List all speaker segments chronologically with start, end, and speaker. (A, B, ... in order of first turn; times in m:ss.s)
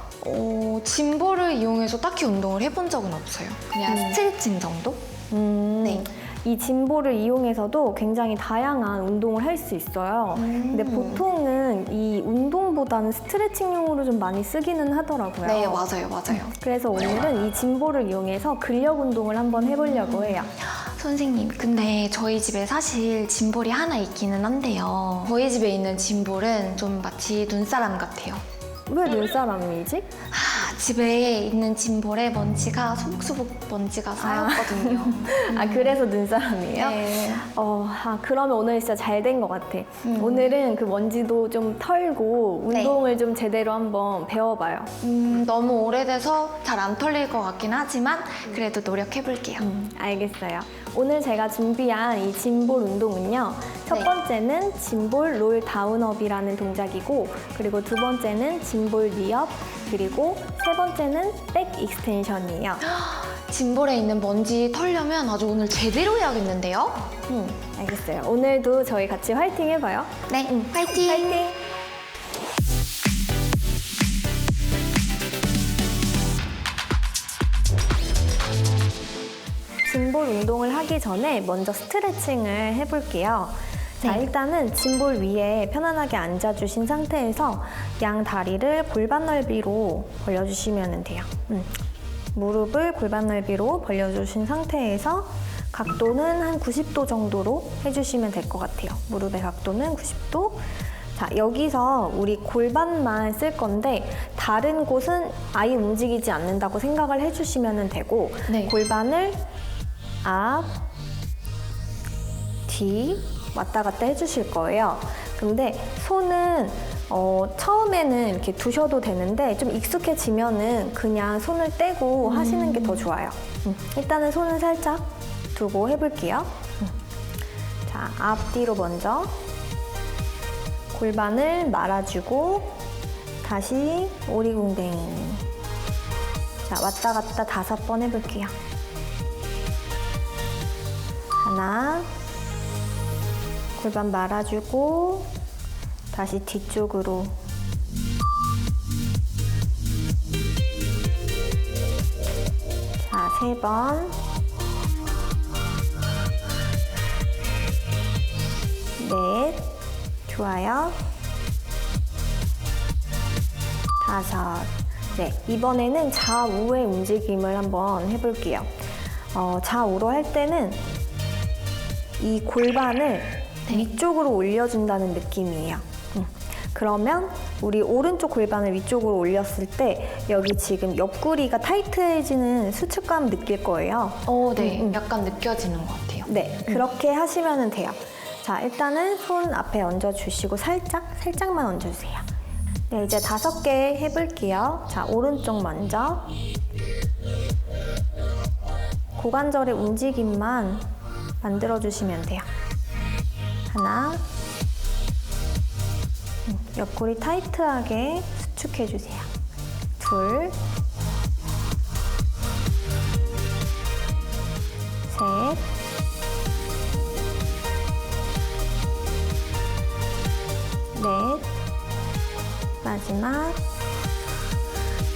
0:00.2-0:05.1 A
0:03.9-0:04.2 B
0:05.3-0:20.5 B
0:05.8-0:06.1 A
0:10.4-0:11.3 A
0:15.4-0:16.5 A
0:19.7-0:28.4 A
0:28.9-0:30.1 B
0:30.3-0:36.0 A
0:34.2-0:45.0 B
0:36.8-0:37.5 A
0:40.0-0:40.5 A
0:42.7-0:43.0 A
0:45.0-0:49.7 A
0:49.6-1:02.8 B
1:02.8-1:07.1 A
1:07.3-1:11.6 B
1:10.3-1:11.4 A
1:19.8-1:31.7 B
1:32.4-1:40.6 B
1:41.2-1:49.4 B
1:48.5-1:48.7 A
1:50.2-1:50.8 B
1:52.7-2:06.9 B
2:02.2-2:03.1 A
2:07.9-2:09.3 B
2:10.9-2:12.7 B
2:13.4-2:15.4 B
2:16.7-2:18.6 B
2:21.4-2:22.1 B
2:23.8-2:25.3 B
2:26.1-2:27.4 B
2:33.0-2:34.2 B
2:39.0-2:39.7 B
2:40.3-2:41.0 B
2:44.0-2:48.7 B
2:49.3-2:50.8 B
2:52.2-3:05.0 B
3:04.3-3:06.8 A
3:06.3-3:12.2 B
3:12.9-3:16.3 B
3:19.2-3:20.9 B
3:21.4-3:22.5 B
3:23.7-3:24.2 B
3:26.5-3:29.3 B
3:30.0-3:30.6 B
3:35.1-3:35.6 B
3:40.9-3:41.5 B
3:42.8-3:43.6 B